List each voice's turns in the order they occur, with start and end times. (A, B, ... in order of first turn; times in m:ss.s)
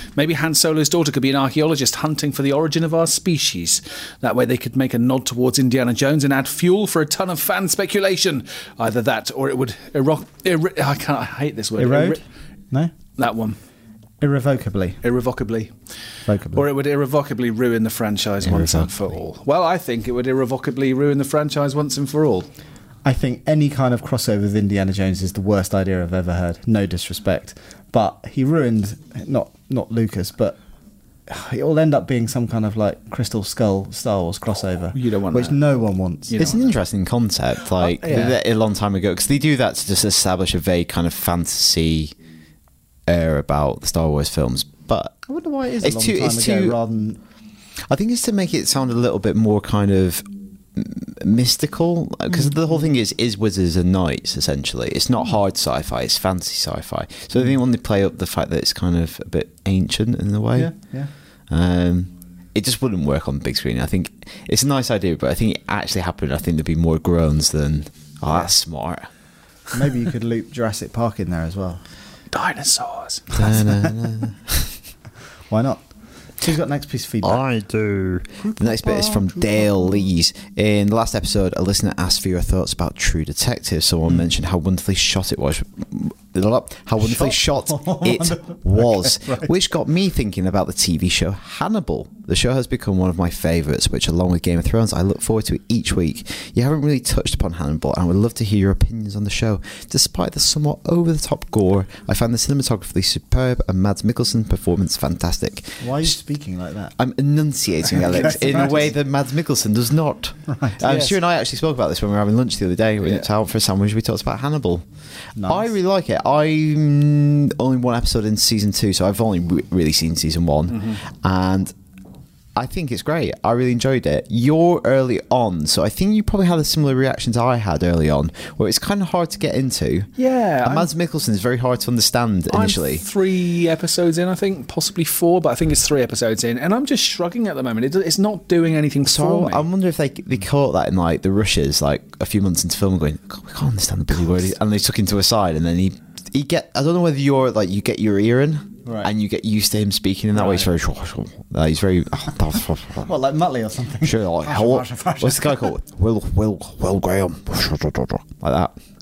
0:00.2-0:12.2 A
0:11.8-0:12.9 B
0:13.2-0:13.6 A
0:14.2-0:15.0 B
0:15.0-0:15.7 A
0:16.3-0:16.7 B
0:16.5-0:22.5 A
0:18.4-0:19.0 C
0:23.0-0:30.6 B
0:31.3-0:36.7 B
0:34.9-0:35.6 A
0:36.3-0:36.6 A
0:36.4-0:42.1 C
0:37.8-0:38.4 A
0:43.1-0:45.2 C
0:45.3-0:47.2 B
0:45.8-0:46.8 C
0:47.9-1:00.8 C
1:00.6-1:01.1 B
1:01.5-1:09.1 C
1:09.7-1:11.8 B
1:12.3-1:13.3 A
1:13.3-1:14.0 B
1:13.4-1:14.8 C
1:15.5-1:17.4 B
1:17.2-1:46.2 C
1:27.0-1:29.5 B
1:45.8-1:47.0 B
1:47.0-1:54.8 C
1:47.9-1:48.9 B
1:50.5-1:50.8 B
1:50.8-1:51.2 A
1:55.4-1:55.7 B
1:55.4-2:01.7 C
2:02.6-2:10.1 C
2:10.2-2:10.9 A
2:10.6-2:13.0 C
2:12.5-2:19.7 A
2:19.0-2:33.1 C
2:28.8-2:29.1 B
2:30.4-2:30.7 B
2:33.1-2:35.7 B
2:34.0-2:38.8 C